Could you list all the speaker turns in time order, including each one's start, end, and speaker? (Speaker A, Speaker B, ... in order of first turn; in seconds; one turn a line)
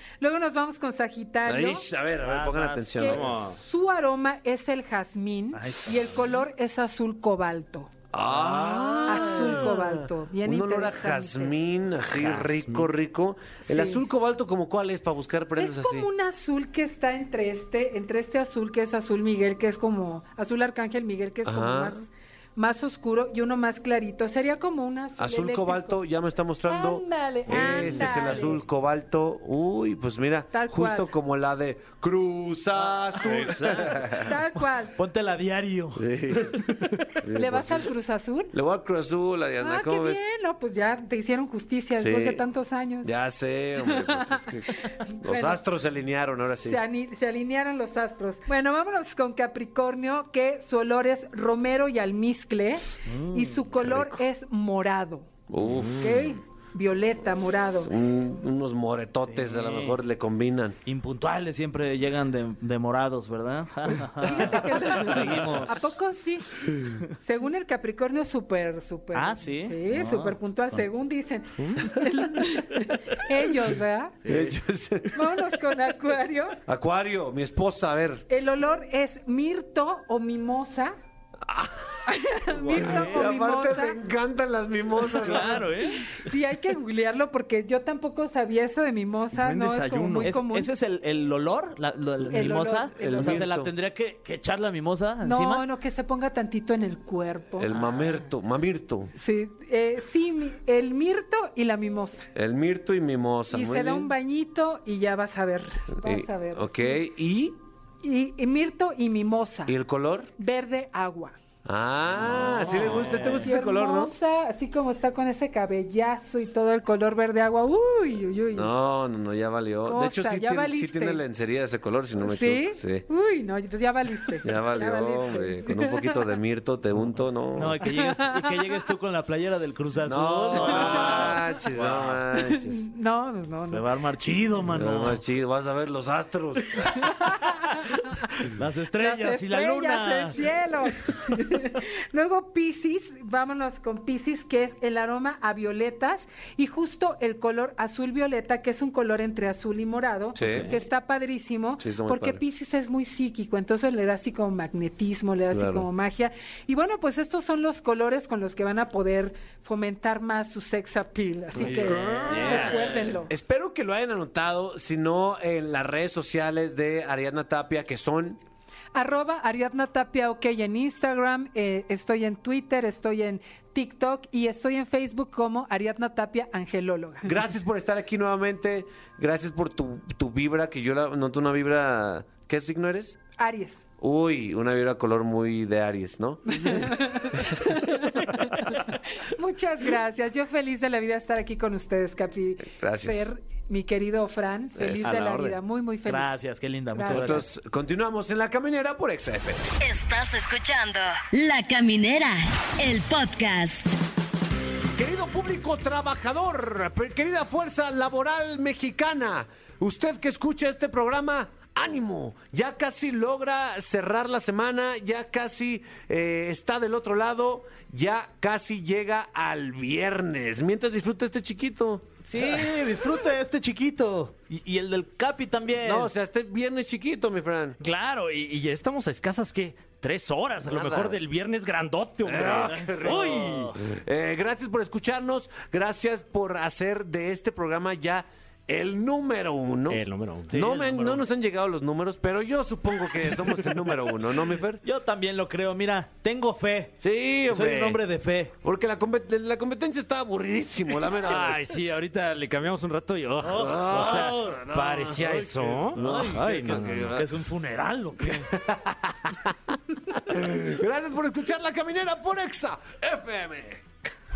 Speaker A: 0.2-1.9
Speaker B: 1.4-3.3
Speaker C: 2.1-3.2
Speaker A: 3.0-7.9
Speaker D: 3.0-3.6
Speaker C: 5.5-6.3
Speaker B: 8.1-9.8
Speaker C: 8.3-9.8
Speaker A: 9.1-11.5
Speaker B: 10.4-16.1
Speaker D: 12.5-12.8
Speaker A: 13.6-14.0
Speaker A: 15.6-26.0
Speaker B: 21.4-22.0
Speaker B: 25.2-34.3
Speaker A: 26.7-28.6
Speaker D: 27.7-28.1
Speaker A: 30.5-31.1
Speaker D: 33.2-34.1
Speaker A: 34.1-35.0
Speaker C: 34.8-36.0
Speaker B: 36.0-37.9
Speaker A: 37.3-38.5
Speaker B: 38.5-40.2
Speaker A: 39.6-43.1
Speaker B: 42.0-42.4
Speaker B: 43.0-46.8
Speaker A: 43.8-45.6
Speaker A: 46.6-55.3
Speaker C: 53.0-53.6
Speaker B: 53.8-54.2
Speaker B: 55.5-56.2
Speaker D: 55.7-56.0
Speaker A: 55.9-57.9
Speaker B: 57.7-60.8
Speaker C: 59.2-60.0
Speaker C: 60.9-65.9
Speaker A: 64.2-74.2
Speaker C: 69.1-70.8
Speaker B: 74.2-75.4
Speaker A: 75.1-76.6
Speaker B: 76.6-78.2
Speaker A: 78.3-81.0
Speaker B: 81.4-82.0
Speaker A: 82.0-84.0
Speaker C: 82.7-83.3
Speaker B: 82.9-85.7
Speaker C: 85.1-86.2
Speaker A: 86.1-90.7
Speaker D: 89.3-90.4
Speaker C: 90.2-95.6
Speaker A: 92.3-93.5
Speaker B: 93.0-93.7
Speaker A: 95.2-97.7
Speaker B: 97.6-99.1
Speaker C: 97.7-98.0
Speaker A: 99.2-102.3
Speaker B: 102.3-104.1
Speaker A: 103.5-107.0
Speaker B: 106.0-107.6
Speaker A: 108.0-109.7
Speaker B: 109.7-110.3
Speaker A: 110.3-111.3
Speaker B: 111.6-114.1
Speaker C: 112.2-113.5
Speaker A: 113.3-118.7
Speaker B: 118.5-123.0
Speaker A: 119.8-121.2
Speaker A: 122.2-126.3
Speaker B: 124.4-127.9
Speaker C: 127.5-132.2
Speaker B: 130.0-132.8
Speaker A: 130.6-131.4
Speaker A: 132.3-133.8
Speaker C: 133.7-135.2
Speaker B: 134.7-137.1
Speaker A: 136.8-138.3
Speaker C: 138.4-140.4
Speaker A: 138.9-163.3
Speaker B: 150.4-150.7
Speaker D: 150.4-150.8
Speaker B: 151.8-152.4
Speaker B: 155.5-155.8
Speaker D: 161.6-163.2
Speaker B: 161.6-168.4
Speaker A: 168.9-177.3
Speaker B: 177.2-183.2
Speaker A: 183.3-183.8
Speaker B: 184.0-186.9
Speaker A: 186.6-196.3
Speaker B: 192.7-193.2
Speaker B: 194.8-195.6
Speaker C: 196.1-197.4
Speaker A: 196.9-197.4
Speaker B: 197.1-199.7
Speaker E: 199.8-203.9
Speaker B: 205.0-222.1
Speaker C: 222.2-226.1
Speaker B: 225.8-227.8
Speaker D: 227.8-233.8
Speaker B: 230.7-231.2
Speaker B: 232.2-244.8
Speaker C: 232.6-233.7
Speaker D: 239.9-240.7
Speaker C: 240.5-241.2
Speaker C: 244.8-246.9
Speaker B: 247.0-248.0
Speaker C: 247.5-248.5
Speaker B: 248.6-251.6
Speaker D: 251.2-257.2
Speaker C: 253.4-254.7
Speaker B: 253.5-257.3
Speaker C: 255.2-258.5
Speaker B: 258.2-259.5
Speaker B: 260.2-263.8